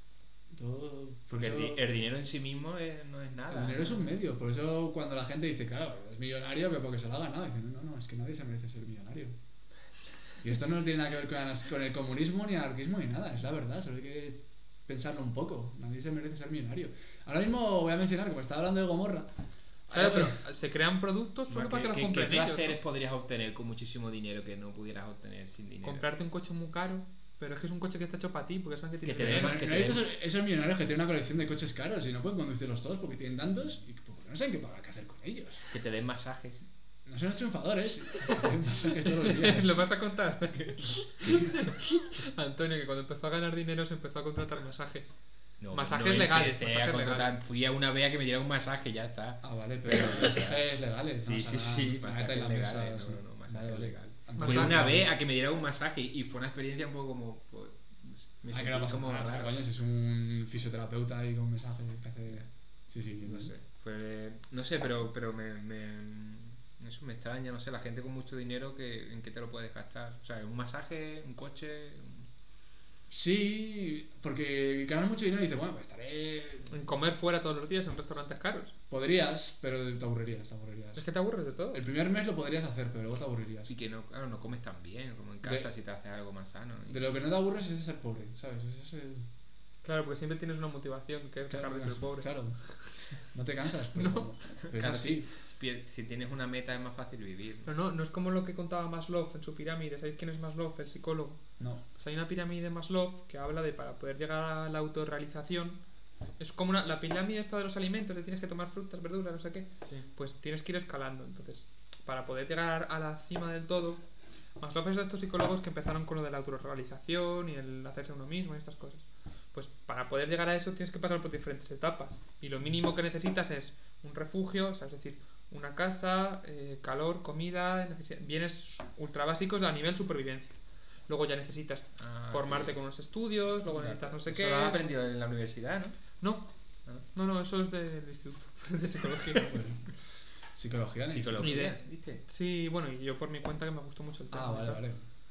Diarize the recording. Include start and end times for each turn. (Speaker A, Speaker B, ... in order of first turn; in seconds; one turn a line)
Speaker A: 0.5-1.9
Speaker B: 1.3-4.2
Speaker A: 3.5-9.3
Speaker A: 10.4-19.3
Speaker A: 19.9-20.4
Speaker C: 19.9-22.8
Speaker B: 21.5-26.1
Speaker C: 25.8-29.7
Speaker B: 29.1-30.0
Speaker A: 29.2-35.7
Speaker B: 35.7-36.6
Speaker A: 37.1-39.8
Speaker C: 39.0-45.1
Speaker A: 41.2-41.5
Speaker B: 45.6-50.6
Speaker C: 45.7-47.4
Speaker A: 49.4-55.1
Speaker B: 51.2-59.5
Speaker C: 54.4-54.9
Speaker A: 58.5-63.5
Speaker B: 63.2-72.3
Speaker A: 73.1-76.7
Speaker C: 76.7-78.7
Speaker A: 78.9-81.0
Speaker C: 81.0-81.8
Speaker A: 81.7-83.7
Speaker B: 83.7-87.1
Speaker A: 85.4-85.7
Speaker A: 86.9-89.3
Speaker C: 89.8-93.0
Speaker A: 91.5-92.6
Speaker A: 93.1-95.3
Speaker C: 94.0-94.3
Speaker B: 94.7-97.7
Speaker C: 97.7-105.8
Speaker C: 106.4-114.0
Speaker C: 114.6-134.9
Speaker B: 132.0-132.8
Speaker B: 133.7-136.0
Speaker C: 136.2-136.5
Speaker C: 137.1-139.5
Speaker A: 139.4-139.9
Speaker A: 140.6-141.6
Speaker B: 141.1-142.2
Speaker C: 141.4-144.8
Speaker A: 144.3-145.0